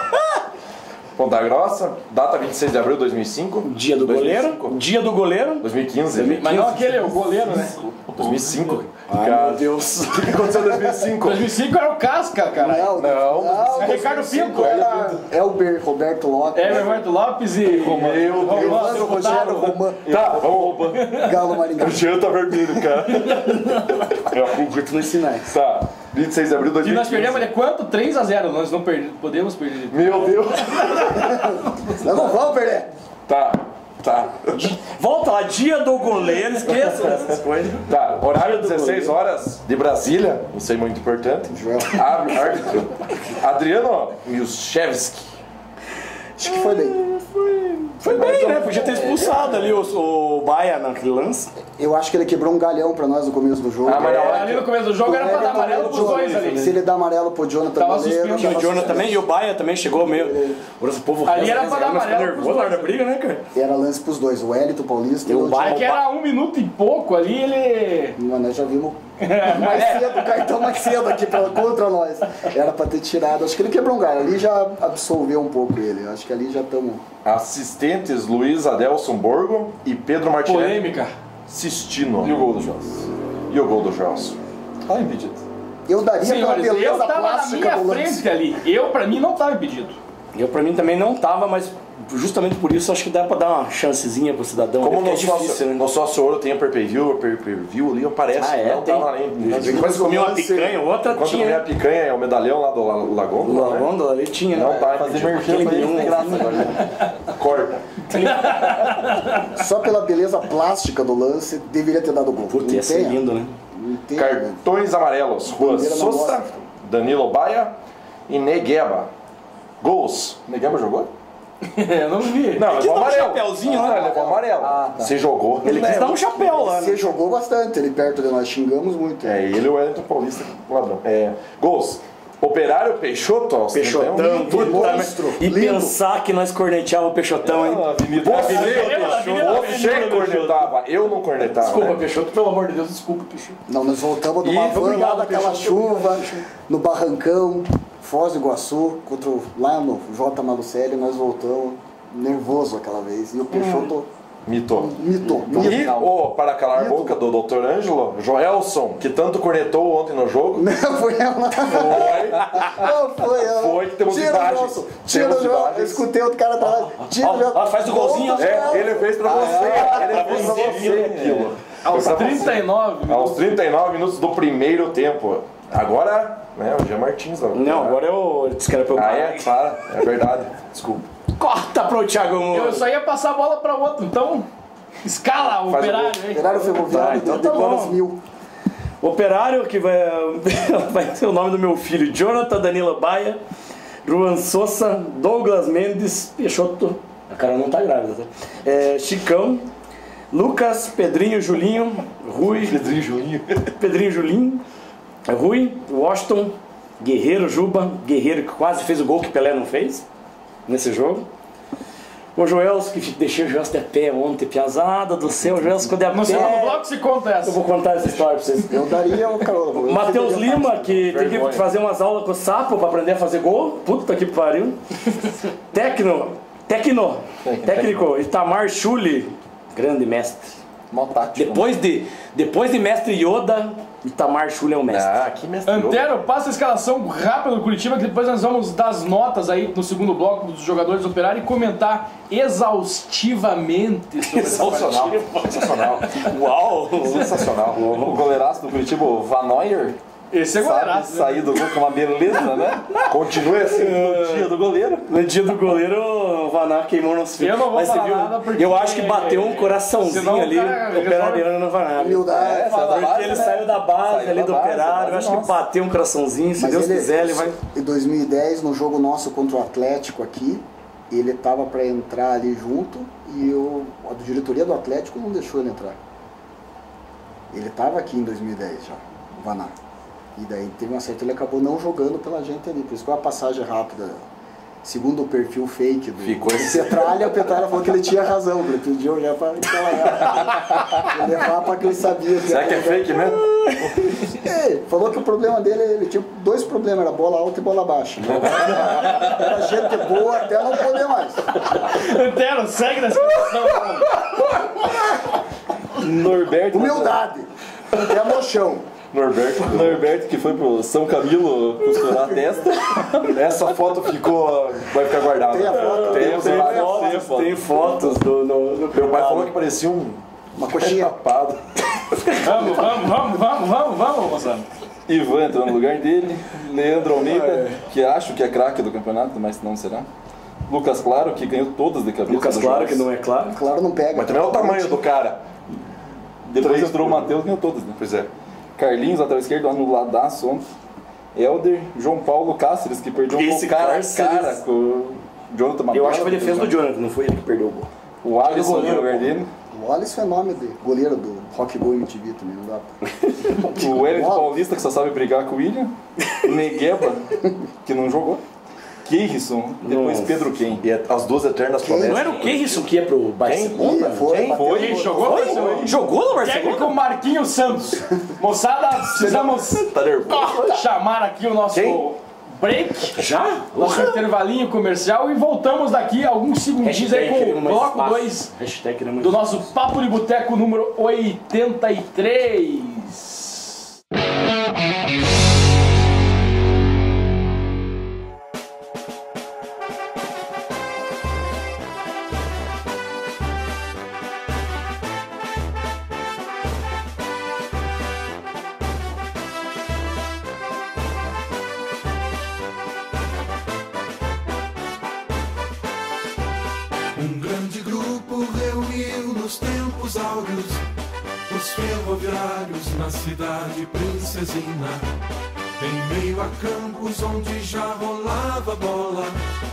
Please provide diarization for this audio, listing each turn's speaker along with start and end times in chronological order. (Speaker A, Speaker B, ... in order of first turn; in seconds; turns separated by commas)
Speaker A: 1.2-4.8, Speaker B: 3.6-7.2, Speaker A: 5.6-6.5, Speaker C: 6.4-7.8, Speaker D: 7.5-8.4, Speaker A: 8.1-11.5, Speaker B: 9.1-10.6, Speaker C: 11.2-13.0, Speaker E: 12.5-17.1, Speaker A: 12.9-14.0, Speaker C: 13.7-15.1, Speaker A: 14.6-14.9, Speaker C: 16.5-19.7, Speaker A: 17.7-21.2, Speaker D: 17.7-18.4, Speaker E: 18.4-20.1, Speaker D: 19.9-21.0, Speaker C: 20.9-21.3, Speaker E: 21.1-22.0, Speaker A: 21.7-24.7, Speaker B: 24.4-25.5, Speaker A: 25.4-27.5, Speaker C: 26.8-30.3, Speaker A: 29.9-31.4, Speaker E: 31.2-32.9, Speaker A: 33.3-34.8, Speaker B: 34.8-39.1, Speaker A: 37.9-45.3, Speaker E: 41.5-42.4, Speaker E: 46.4-47.0, Speaker B: 46.4-51.5, Speaker A: 48.1-49.0, Speaker D: 48.8-49.7, Speaker E: 51.7-59.2, Speaker A: 53.8-54.7, Speaker C: 54.0-56.8, Speaker B: 55.8-56.4, Speaker C: 57.8-59.0, Speaker B: 58.4-63.4, Speaker E: 60.0-60.6, Speaker C: 61.2-63.0, Speaker E: 63.5-65.8, Speaker B: 65.2-66.0, Speaker C: 65.6-68.2, Speaker E: 68.2-77.0, Speaker C: 69.2-70.2, Speaker A: 77.2-80.9, Speaker C: 80.4-81.1, Speaker A: 81.5-82.5, Speaker D: 82.2-83.1, Speaker A: 83.5-84.4, Speaker D: 84.9-85.4, Speaker E: 85.9-88.2, Speaker C: 86.2-90.0, Speaker B: 90.3-95.8, Speaker A: 94.8-100.1, Speaker B: 98.3-101.6, Speaker E: 99.5-100.8, Speaker A: 101.1-103.9, Speaker B: 103.4-106.8, Speaker A: 104.5-108.4, Speaker D: 104.8-106.6, Speaker C: 108.2-109.2, Speaker E: 109.5-113.2, Speaker B: 112.5-113.5, Speaker E: 113.7-114.6, Speaker A: 114.2-117.7, Speaker E: 115.5-116.6, Speaker A: 118.3-119.1, Speaker A: 119.8-120.5, Speaker D: 120.5-121.1, Speaker C: 121.6-122.7, Speaker A: 122.5-126.1, Speaker B: 122.6-124.4, Speaker D: 124.5-125.1, Speaker B: 125.6-127.0, Speaker E: 125.7-129.4, Speaker A: 129.2-135.0, Speaker B: 133.7-137.9, Speaker E: 134.4-136.0, Speaker D: 137.4-140.7, Speaker A: 138.1-142.0, Speaker C: 138.2-140.5, Speaker B: 139.2-139.9, Speaker B: 141.4-143.6, Speaker E: 143.7-154.1, Speaker B: 144.4-146.4, Speaker A: 154.4-154.9, Speaker E: 154.8-156.1, Speaker D: 155.5-156.1, Speaker A: 155.5-160.7, Speaker E: 156.7-157.2, Speaker E: 160.5-169.9, Speaker A: 161.7-166.0, Speaker B: 166.6-168.9, Speaker A: 168.3-178.0, Speaker D: 169.2-171.5, Speaker B: 169.9-170.9, Speaker C: 171.8-173.6, Speaker B: 177.5-179.5, Speaker A: 178.9-181.0, Speaker B: 181.4-182.8, Speaker C: 182.5-184.5, Speaker C: 185.0-186.7, Speaker A: 185.6-186.2, Speaker E: 186.3-188.2, Speaker B: 186.9-188.0, Speaker B: 189.0-193.4, Speaker B: 194.0-199.7, Speaker B: 200.3-202.8, Speaker A: 202.6-203.6, Speaker B: 203.8-204.6, Speaker B: 205.2-210.0, Speaker B: 210.7-211.2, Speaker B: 212.3-216.8, Speaker C: 216.1-217.6, Speaker B: 217.4-218.9, Speaker E: 218.7-221.0, Speaker B: 219.8-230.6, Speaker A: 221.0-221.7, Speaker D: 227.4-227.9, Speaker D: 230.9-231.6, Speaker B: 231.3-235.2, Speaker A: 234.9-236.1, Speaker C: 235.7-245.3, Speaker B: 244.3-248.2, Speaker A: 244.4-246.3, Speaker A: 247.0-248.0, Speaker D: 247.9-250.0, Speaker C: 250.3-251.6, Speaker D: 250.5-253.1, Speaker B: 253.0-254.5, Speaker A: 253.1-254.7, Speaker D: 254.0-255.0, Speaker B: 255.1-267.5, Speaker C: 257.4-261.5, Speaker E: 261.9-263.6, Speaker D: 262.3-265.5, Speaker E: 266.6-276.0, Speaker E: 277.5-279.7, Speaker E: 280.4-284.2, Speaker E: 284.8-293.3, Speaker A: 286.2-287.4, Speaker A: 292.4-293.9, Speaker E: 294.3-301.4, Speaker A: 298.3-299.0, Speaker C: 301.6-304.1, Speaker D: 306.0-307.2, Speaker E: 306.7-308.9, Speaker A: 309.1-310.1, Speaker D: 309.6-313.4, Speaker A: 313.3-317.1, Speaker E: 315.4-317.2, Speaker B: 315.7-319.5, Speaker D: 316.0-318.2, Speaker A: 318.9-321.6, Speaker E: 320.6-321.1, Speaker B: 322.1-322.8, Speaker C: 322.4-324.6, Speaker D: 325.1-330.1, Speaker B: 327.1-327.8, Speaker D: 330.7-333.1, Speaker B: 332.3-333.6, Speaker E: 333.5-335.0, Speaker A: 334.1-335.4, Speaker D: 336.4-338.0, Speaker A: 336.6-337.3, Speaker A: 338.0-338.3, Speaker D: 338.8-340.6, Speaker D: 341.3-346.7, Speaker B: 343.3-344.6, Speaker B: 345.9-347.9, Speaker D: 348.2-349.5, Speaker B: 348.4-349.4, Speaker E: 349.7-352.9, Speaker B: 353.1-353.8, Speaker D: 353.7-355.9, Speaker E: 353.9-354.5, Speaker D: 356.4-357.3, Speaker D: 357.8-358.4, Speaker D: 359.0-360.8, Speaker B: 359.8-360.5, Speaker A: 360.8-362.9, Speaker E: 361.8-362.3, Speaker B: 362.0-364.5, Speaker A: 363.4-364.6, Speaker E: 363.7-365.5, Speaker D: 364.5-365.9, Speaker C: 364.7-369.8, Speaker B: 365.1-366.9, Speaker D: 369.1-370.7, Speaker A: 369.9-370.5, Speaker C: 370.6-373.2, Speaker A: 371.7-372.0, Speaker B: 373.1-374.2, Speaker C: 373.7-378.5, Speaker B: 376.8-379.6, Speaker C: 379.2-383.7, Speaker F: 407.2-410.8, Speaker F: 411.5-415.0, Speaker F: 415.8-419.3